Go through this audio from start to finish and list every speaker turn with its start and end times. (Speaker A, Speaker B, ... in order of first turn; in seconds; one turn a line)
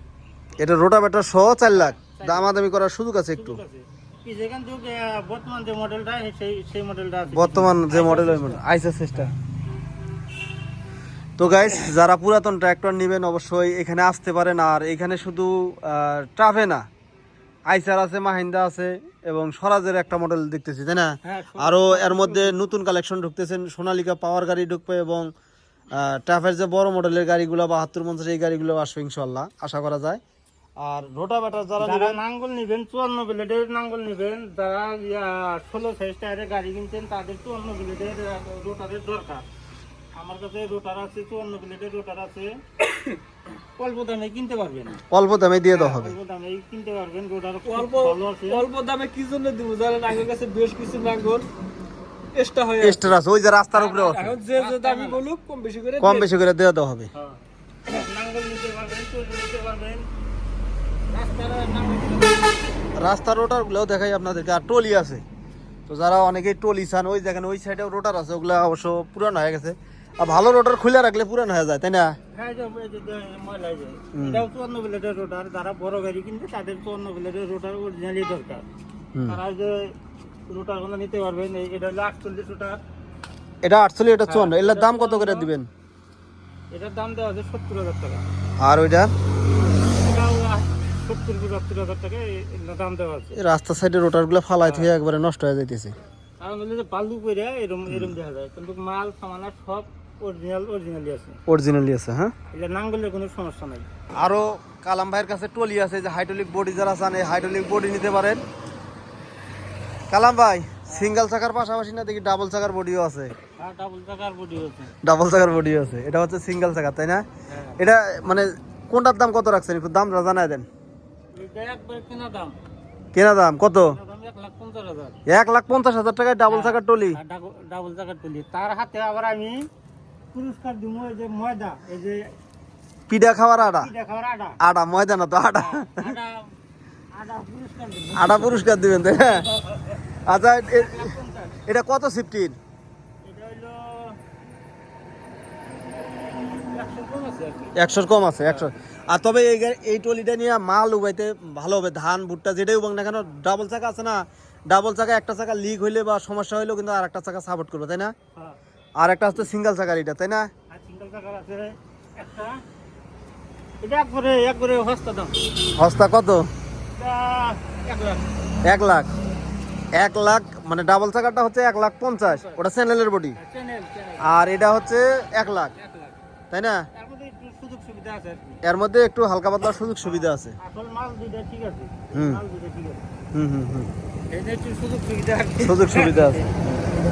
Speaker A: 0.6-3.6
Speaker B: 1.7-2.5
Speaker B: 3.4-8.6
Speaker A: 7.3-9.3
Speaker A: 11.4-16.8
Speaker A: 17.7-25.3
Speaker B: 21.3-22.6
Speaker A: 25.9-30.2
Speaker A: 30.8-32.2
Speaker B: 31.8-39.5
Speaker B: 40.1-42.5
Speaker B: 43.8-45.0
Speaker A: 45.1-46.2
Speaker B: 45.7-48.7
Speaker C: 47.6-51.5
Speaker C: 52.4-53.1
Speaker A: 52.8-54.4
Speaker C: 53.8-56.3
Speaker B: 54.5-55.2
Speaker A: 56.0-57.1
Speaker B: 57.1-60.1
Speaker B: 61.1-62.6
Speaker A: 63.0-65.2
Speaker A: 65.9-72.1
Speaker B: 72.3-78.7
Speaker A: 74.1-74.4
Speaker A: 79.1-79.4
Speaker B: 79.3-80.0
Speaker B: 80.5-82.8
Speaker A: 83.6-85.7
Speaker B: 84.3-85.5
Speaker B: 86.7-88.2
Speaker A: 88.6-89.1
Speaker B: 89.9-93.4
Speaker A: 93.3-96.0
Speaker B: 94.6-94.9
Speaker B: 96.4-101.4
Speaker A: 97.9-98.1
Speaker A: 101.5-102.3
Speaker B: 102.5-103.9
Speaker A: 104.2-108.4
Speaker A: 110.1-113.3
Speaker B: 110.9-111.2
Speaker B: 113.6-115.0
Speaker A: 115.0-117.2
Speaker B: 117.5-117.8
Speaker A: 117.8-120.7
Speaker B: 121.3-122.5
Speaker A: 123.1-124.0
Speaker B: 123.8-125.2
Speaker A: 125.3-127.2
Speaker B: 126.5-129.7
Speaker B: 130.3-132.3
Speaker A: 133.1-133.9
Speaker B: 133.6-134.6
Speaker A: 134.6-136.2
Speaker B: 135.6-136.5
Speaker B: 137.1-140.0
Speaker A: 138.2-139.5
Speaker A: 140.3-141.1
Speaker B: 140.7-141.6
Speaker A: 141.7-142.6
Speaker B: 143.2-144.2
Speaker B: 146.7-147.8
Speaker A: 147.8-158.1
Speaker A: 159.0-160.5
Speaker B: 160.7-162.6
Speaker B: 163.8-165.4
Speaker A: 165.8-166.5
Speaker B: 167.0-168.3
Speaker A: 168.7-169.1
Speaker A: 169.9-173.4
Speaker B: 172.3-172.6
Speaker B: 173.4-174.6
Speaker A: 174.2-175.7
Speaker B: 175.7-176.2
Speaker A: 176.5-176.8
Speaker B: 176.9-178.6
Speaker A: 178.6-180.6
Speaker B: 180.0-183.0
Speaker A: 182.1-182.4
Speaker A: 183.3-183.9
Speaker B: 184.3-186.7
Speaker A: 185.6-186.4